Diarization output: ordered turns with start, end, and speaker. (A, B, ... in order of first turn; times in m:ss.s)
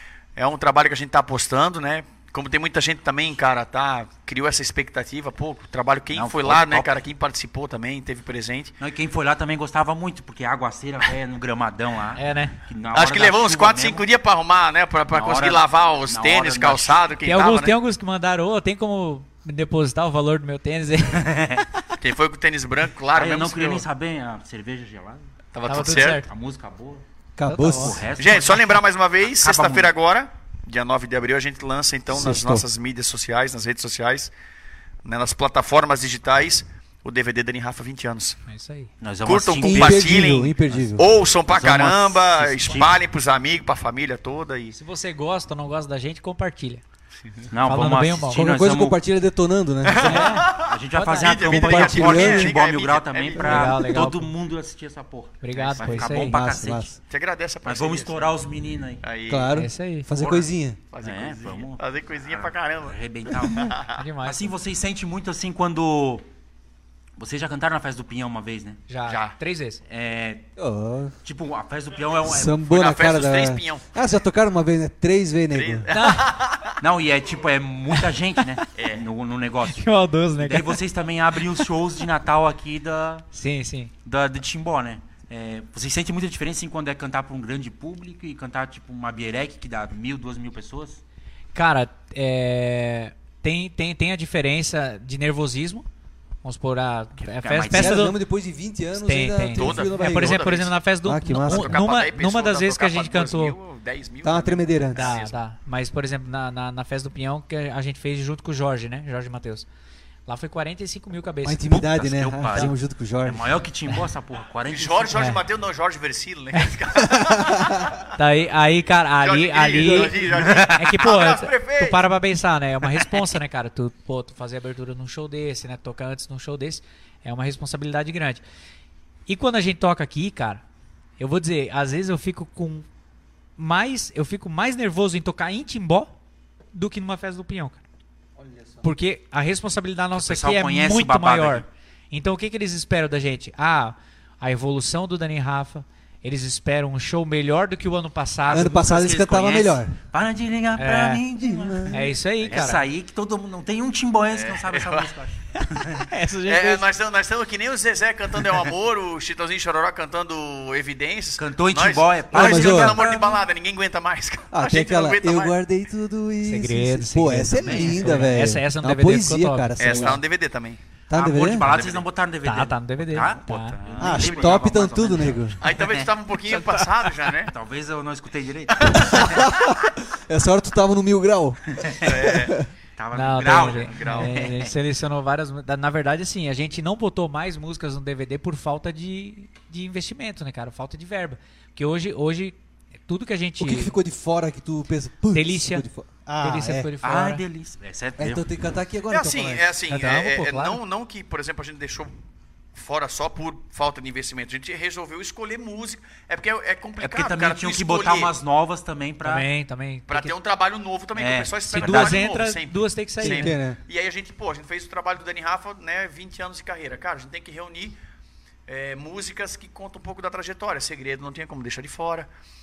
0:00.4-0:08.7 A
0:06.1-0:07.0 B
0:08.8-0:14.0 B
0:12.1-0:12.6 C
0:12.9-0:17.7 A
0:15.1-0:17.1 B
0:17.2-0:21.8 C
0:21.1-0:21.6 B
0:22.0-0:23.8 A
0:23.1-0:25.3 B
0:25.5-0:26.2 A
0:25.6-0:26.3 C
0:26.2-0:27.0 B
0:27.4-0:28.0 D
0:27.5-0:28.1 C
0:27.6-0:29.9 B
0:28.2-0:34.3 A
0:32.1-0:32.6 D
0:35.0-0:38.4 A
0:38.5-0:38.9 C
0:39.0-0:43.0 B
0:39.2-0:44.8 A
0:39.6-0:41.1 D
0:44.7-0:46.8 C
0:47.5-0:49.0 B
0:47.6-0:48.4 C
0:48.3-0:50.4 D
0:49.8-0:53.7 A
0:50.0-0:52.0 C
0:50.0-0:56.9 B
0:51.5-0:52.5 D
0:53.4-0:54.3 C
0:53.4-0:53.7 D
0:55.4-0:56.3 C
0:55.5-0:56.1 A
0:56.1-0:56.9 D
0:57.1-0:58.4 A
0:57.6-0:59.0 B
0:59.0-0:59.6 A
0:59.3-1:00.8 D
0:59.5-1:00.1 C
1:00.2-1:04.0 A
1:01.0-1:06.2 B
1:03.9-1:04.5 C
1:07.2-1:08.8 B
1:08.9-1:09.8 C
1:09.0-1:09.4 A
1:09.9-1:10.5 B
1:10.6-1:11.1 D
1:11.2-1:12.6 B
1:12.2-1:15.9 D
1:12.7-1:13.8 A
1:15.5-1:16.8 A
1:15.9-1:16.4 C
1:16.8-1:23.2 B
1:18.7-1:19.0 A
1:19.7-1:20.8 C
1:23.3-1:23.9 C
1:24.0-1:31.0 B
1:31.5-1:35.8 C
1:36.4-1:38.2 C
1:37.2-1:38.1 B
1:37.7-1:40.5 D
1:38.9-1:43.6 C
1:39.5-1:40.8 A
1:41.0-1:41.8 D
1:41.4-1:45.4 A
1:44.2-1:45.2 D
1:45.0-1:49.6 C
1:50.2-1:51.6 C
1:51.4-1:53.6 D
1:51.7-1:55.3 B
1:54.7-1:58.1 A
1:55.1-1:55.4 C
1:57.1-1:57.9 D
1:58.2-2:08.4 C
1:59.2-2:02.1 A
2:00.3-2:00.8 B
2:02.8-2:03.3 A
2:09.3-2:10.6 C
2:11.2-2:12.8 C
2:13.6-2:16.1 C
2:16.7-2:17.8 C
2:18.4-2:18.9 D
2:18.8-2:29.0 C
2:20.1-2:21.6 B
2:28.5-2:29.9 D
2:28.8-2:36.0 B
2:30.8-2:31.2 C
2:31.4-2:32.1 D
2:31.9-2:32.8 C
2:34.3-2:35.1 A
2:35.5-2:36.8 C
2:36.4-2:45.6 A
2:41.4-2:43.4 B
2:42.3-2:43.0 D
2:44.5-2:50.2 D
2:46.4-2:50.2 C
2:47.6-2:48.4 B
2:49.8-2:50.8 A
2:51.1-2:51.7 D
2:51.1-2:56.8 B
2:51.6-2:52.0 A
2:52.4-2:53.8 C
2:53.5-2:54.6 A
2:54.0-2:55.6 D
2:55.6-2:57.5 A
2:57.5-2:59.4 B
2:58.8-2:59.3 A
2:58.9-3:02.7 D
3:01.8-3:02.1 B
3:02.0-3:02.6 A
3:03.0-3:04.7 B
3:03.1-3:13.9 C
3:03.6-3:04.4 A
3:13.6-3:16.9 D
3:15.3-3:15.8 C
3:16.4-3:17.4 C
3:17.0-3:18.4 B
3:18.2-3:19.7 D
3:19.1-3:22.1 A
3:19.9-3:20.8 C
3:22.7-3:28.3 A
3:27.0-3:29.4 B
3:29.2-3:30.3 C
3:30.1-3:38.0 A
3:31.2-3:32.2 B
3:31.7-3:33.5 C
3:33.2-3:33.8 D
3:38.7-3:42.3 A